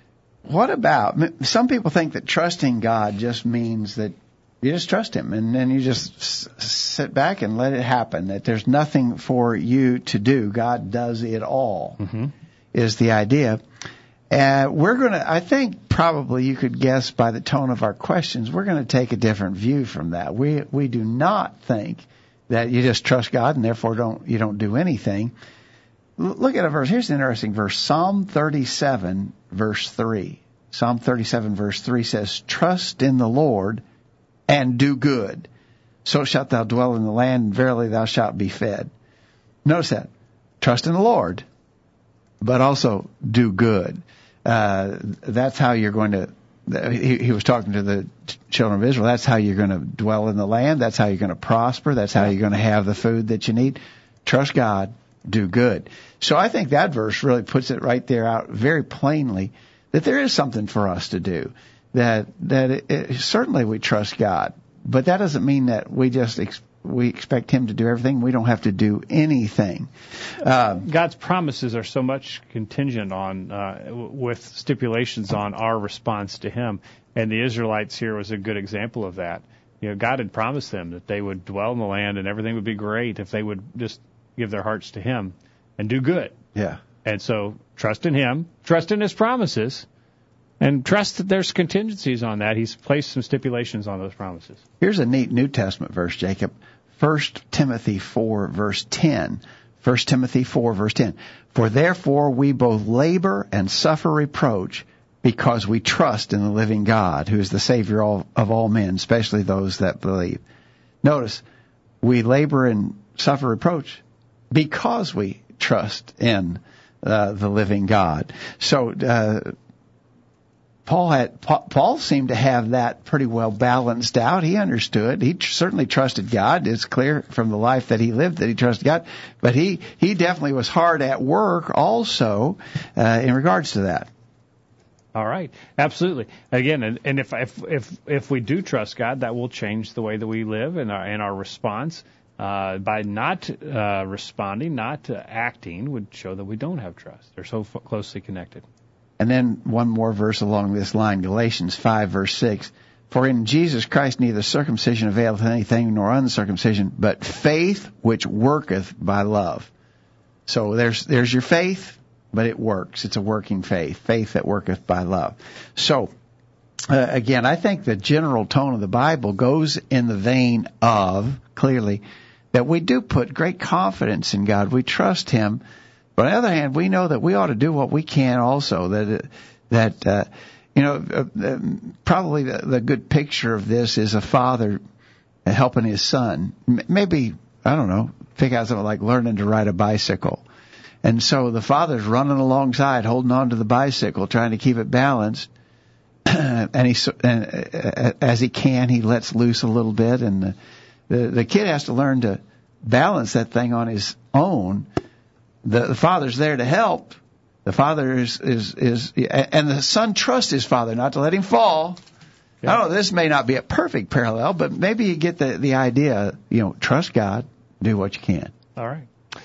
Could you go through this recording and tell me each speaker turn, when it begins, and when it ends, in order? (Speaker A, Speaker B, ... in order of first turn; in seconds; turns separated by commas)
Speaker A: 0.4-12.0, Speaker B: 12.0-12.3, Speaker A: 12.7-13.6, Speaker A: 14.3-25.3, Speaker A: 26.2-33.8, Speaker A: 34.5-35.5, Speaker A: 36.0-38.9, Speaker A: 39.6-40.1, Speaker A: 40.6-41.4, Speaker A: 42.4-70.9, Speaker B: 70.8-86.3, Speaker A: 86.5-86.8, Speaker B: 87.0-89.8, Speaker B: 90.6-94.6, Speaker A: 94.8-110.4, Speaker A: 111.0-111.4, Speaker A: 112.0-119.5, Speaker A: 120.8-134.1, Speaker B: 135.1-148.6, Speaker A: 149.2-159.7, Speaker A: 160.5-166.1, Speaker A: 166.9-175.6, Speaker A: 176.2-184.8, Speaker A: 185.4-190.4, Speaker A: 191.0-195.5, Speaker A: 196.2-200.6, Speaker A: 201.1-204.9, Speaker A: 205.6-212.0, Speaker A: 212.6-218.5, Speaker B: 218.8-219.1